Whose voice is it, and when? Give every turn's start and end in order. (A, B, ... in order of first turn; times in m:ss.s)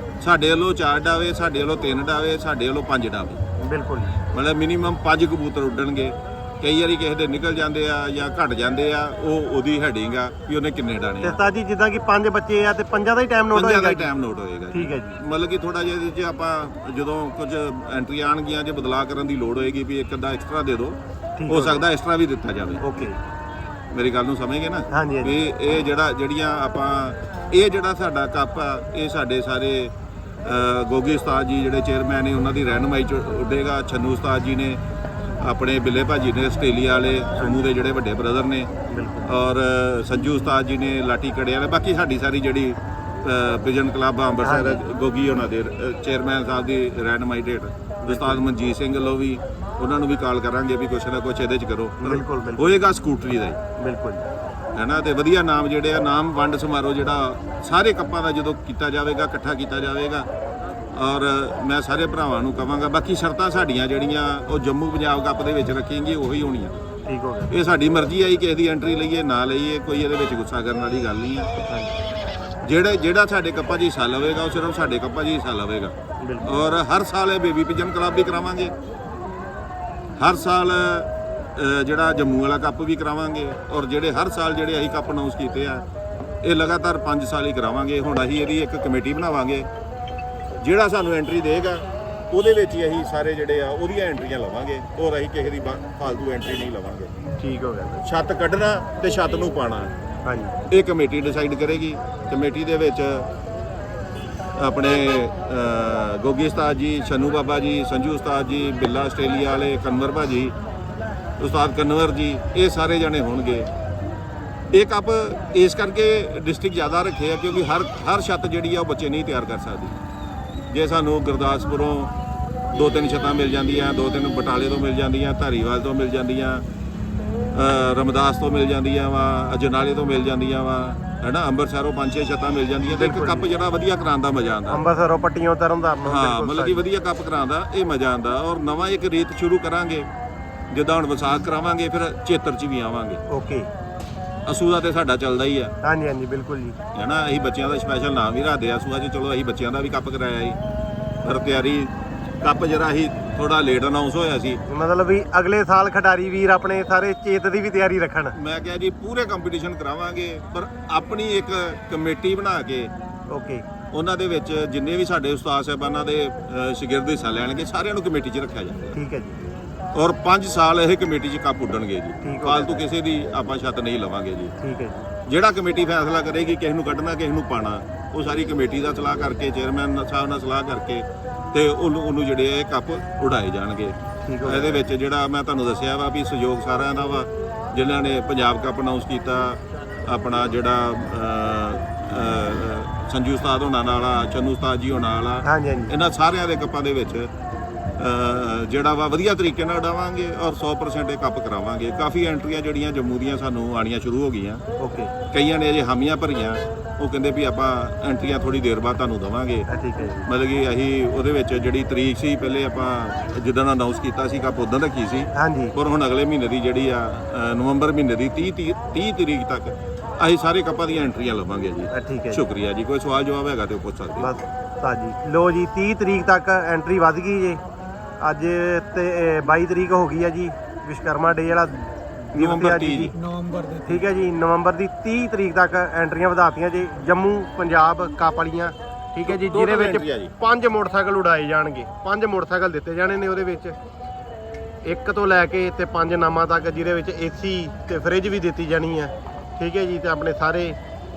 0:00.2-0:03.4 A
0:03.6-0:04.1 B
0:04.3-0:11.4 A
0:11.2-0:14.1 B
0:13.5-0:21.0 A
0:14.7-0:15.2 B
0:21.4-0:21.8 B
0:21.5-0:22.8 A
0:22.8-0:23.2 B
0:23.9-0:29.9 A
0:24.9-0:25.4 B
0:30.4-0:34.8 A
0:35.4-0:38.7 A
0:37.4-0:37.7 B
0:38.9-0:39.3 B
0:39.2-0:53.6 A
0:44.4-0:44.8 B
0:48.0-0:48.4 B
0:52.0-0:52.8 B
0:53.8-0:54.3 B
0:54.8-1:00.3 A
1:00.9-1:06.8 A
1:07.1-1:07.5 B
1:07.5-1:11.5 A
1:11.6-1:11.9 B
1:12.6-1:18.7 A
1:16.2-1:16.5 B
1:20.2-1:25.8 A
1:26.4-1:29.7 A
1:30.6-1:37.1 A
1:37.4-1:38.0 B
1:38.0-1:39.9 A
1:40.2-1:40.6 B
1:40.7-1:43.3 A
1:44.6-1:50.6 A
1:51.4-1:53.7 A
1:54.7-2:00.0 A
2:00.7-2:02.1 A
2:02.7-2:06.6 A
2:07.5-2:14.8 A
2:12.9-2:13.5 B
2:14.7-2:16.8 B
2:16.1-2:20.1 A
2:20.7-2:23.2 A
2:23.3-2:23.7 B
2:24.5-2:25.7 A
2:25.8-2:26.8 B
2:26.9-2:30.6 A
2:31.2-2:34.6 A
2:34.7-2:38.4 B
2:38.4-2:42.9 A
2:43.3-2:43.7 B
2:43.9-2:49.0 A
2:48.9-2:49.4 B
2:50.0-2:54.5 A
2:52.2-2:52.8 B
2:54.6-2:55.1 B
2:55.3-3:17.3 A
3:04.2-3:04.9 B
3:15.4-3:15.9 B
3:18.0-3:24.6 A
3:24.8-3:25.1 B
3:25.3-3:29.7 A
3:29.7-3:30.3 B
3:30.3-3:44.3 A
3:35.4-3:35.8 B
3:41.9-3:42.4 B
3:44.2-3:47.6 B
3:48.2-3:53.2 B
3:52.3-3:53.2 A
3:53.8-4:03.8 B
3:59.3-4:00.3 A
4:04.8-4:10.8 B